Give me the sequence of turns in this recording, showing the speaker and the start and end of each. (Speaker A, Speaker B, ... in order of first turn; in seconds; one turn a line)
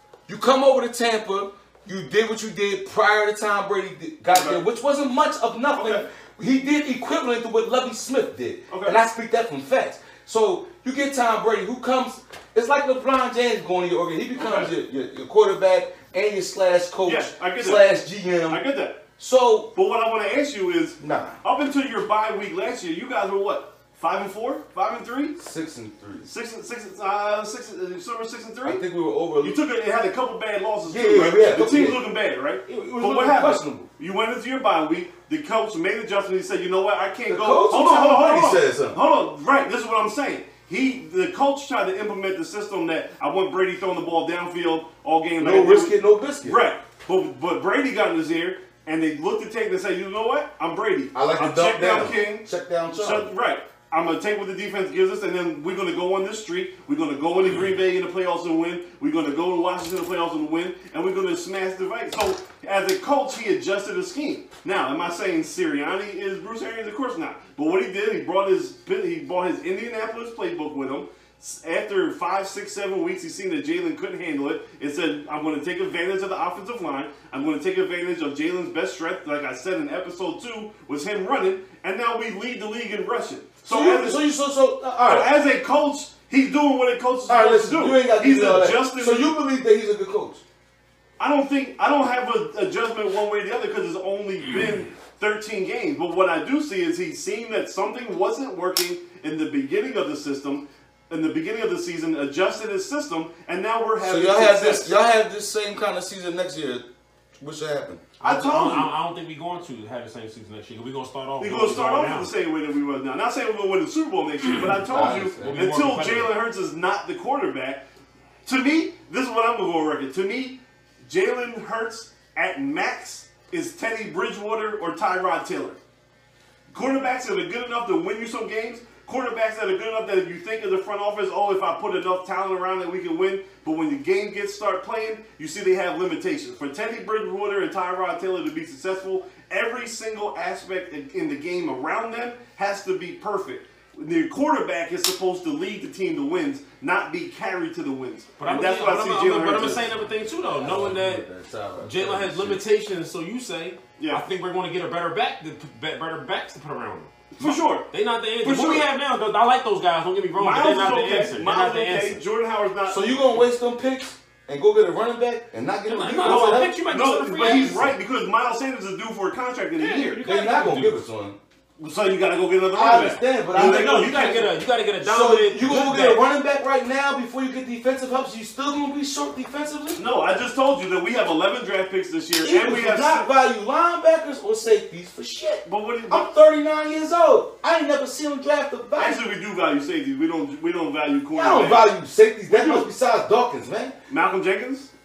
Speaker A: 0.3-18.6
Speaker B: 4.3-4.6
Speaker B: 5.7-6.0
Speaker B: 8.7-9.0
Speaker B: 14.3-14.7
Speaker B: 17.0-17.8
Speaker B: 18.5-19.0
Speaker A: 19.2-19.7
Speaker B: 19.7-25.4
Speaker A: 21.0-21.4
Speaker A: 25.4-26.3
Speaker B: 26.2-28.8
Speaker A: 28.6-29.6
Speaker B: 29.4-84.2
Speaker A: 30.9-32.0
Speaker A: 32.6-33.9
Speaker A: 37.3-39.0
Speaker A: 45.4-46.6
Speaker A: 51.1-53.3
Speaker A: 83.7-85.3
Speaker B: 85.0-89.3
Speaker A: 87.3-90.4
Speaker B: 91.2-104.9
Speaker A: 104.0-106.8
Speaker A: 107.4-108.0
Speaker C: 108.2-112.3
Speaker B: 108.2-108.9
Speaker B: 111.4-117.8
Speaker A: 114.7-115.7
Speaker C: 115.4-116.3
Speaker B: 118.4-125.8
Speaker B: 126.7-149.9
Speaker C: 148.4-151.2
Speaker A: 149.5-149.9
Speaker A: 150.5-152.6
Speaker C: 151.8-162.2
Speaker B: 154.0-154.2
Speaker B: 157.3-157.9
Speaker B: 158.4-158.8
Speaker B: 160.3-163.4
Speaker A: 162.9-166.8
Speaker C: 165.8-167.9
Speaker B: 166.2-170.2
Speaker A: 167.4-167.8
Speaker C: 169.8-171.0
Speaker A: 170.2-171.4
Speaker B: 171.8-174.5
Speaker A: 172.7-174.0
Speaker C: 173.5-176.2
Speaker A: 175.0-180.0
Speaker B: 180.0-183.3
Speaker A: 182.4-189.2
Speaker B: 185.7-186.3
Speaker B: 189.0-191.9
Speaker A: 191.3-193.9
Speaker B: 192.5-192.9
Speaker B: 194.1-194.9